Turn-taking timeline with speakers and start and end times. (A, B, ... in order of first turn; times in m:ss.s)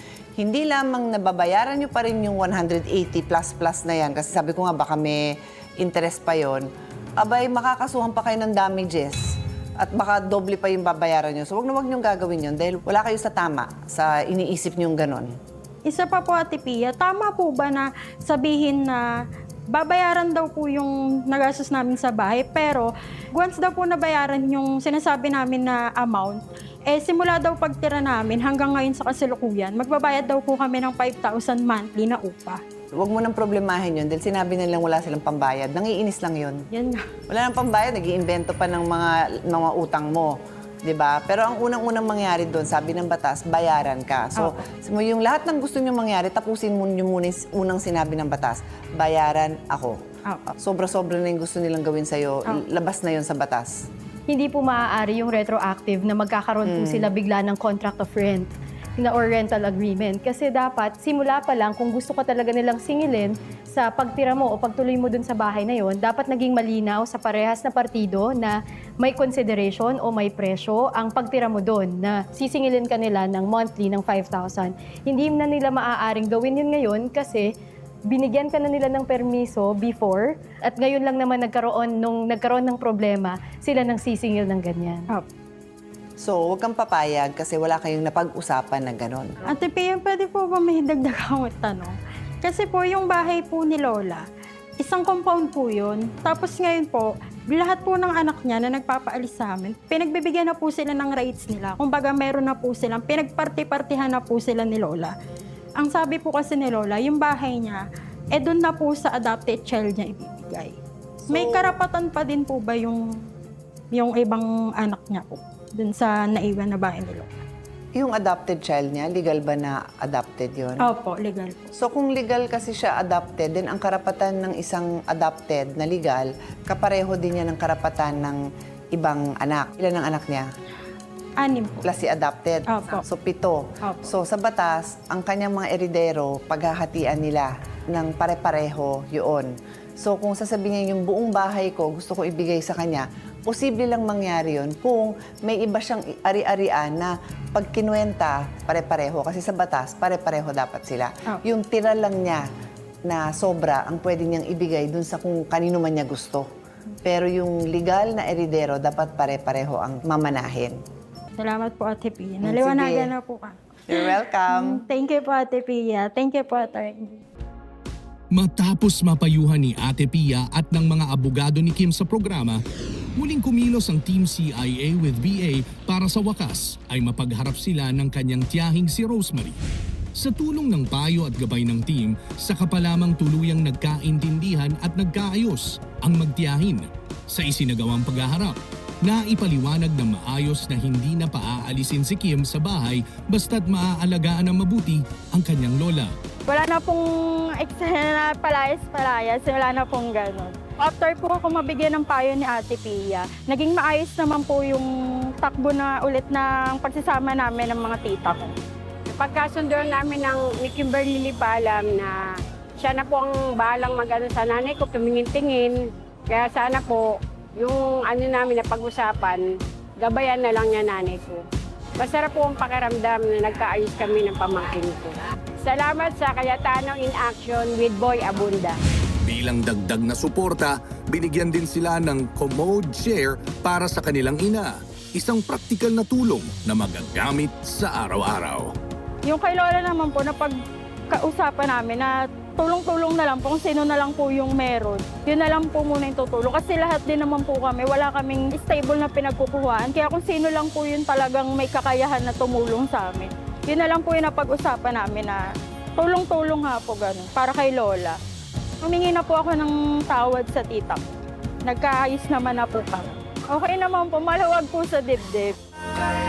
0:00.4-0:06.7 A
0:07.2-0:15.3 A
0:15.8-0:19.0 B
0:19.7-0:32.6 B
0:32.9-0:36.6 A
0:36.7-0:37.0 B
0:37.3-0:50.0 A
0:44.4-0:44.6 B
0:50.6-0:53.7 A
0:54.3-1:17.5 C
0:56.7-0:57.1 A
1:18.1-1:25.1 C
1:26.2-1:29.4 A
1:29.5-1:34.2 B
1:34.8-1:45.1 B
1:45.8-1:47.8 B
1:48.3-1:50.8 B
1:51.2-1:51.7 A
1:51.3-1:53.0 B
1:53.9-1:57.4 B
1:57.9-2:00.9 A
2:00.8-2:01.7 B
2:01.8-2:08.4 A
2:08.9-2:10.5 A
2:11.4-2:11.9 B
2:11.8-2:32.4 A
2:12.7-2:13.0 B
2:13.8-2:14.2 B
2:33.1-2:36.5 A
2:37.0-2:40.8 A
2:41.4-2:47.2 B
2:42.4-2:43.1 A
2:43.9-2:44.8 A
2:48.3-2:52.6 D
2:53.2-2:59.6 D
3:00.1-3:16.1 D
3:16.5-3:24.9 B
3:25.4-3:28.5 B
3:29.1-3:32.2 E
3:32.8-3:35.8 E
3:36.3-3:41.4 E
3:42.0-3:48.8 E
3:49.2-3:58.7 D
3:59.2-4:00.6 B
4:01.1-4:15.4 B
4:16.0-4:18.2 B
4:18.8-4:21.1 B
4:21.6-4:25.5 B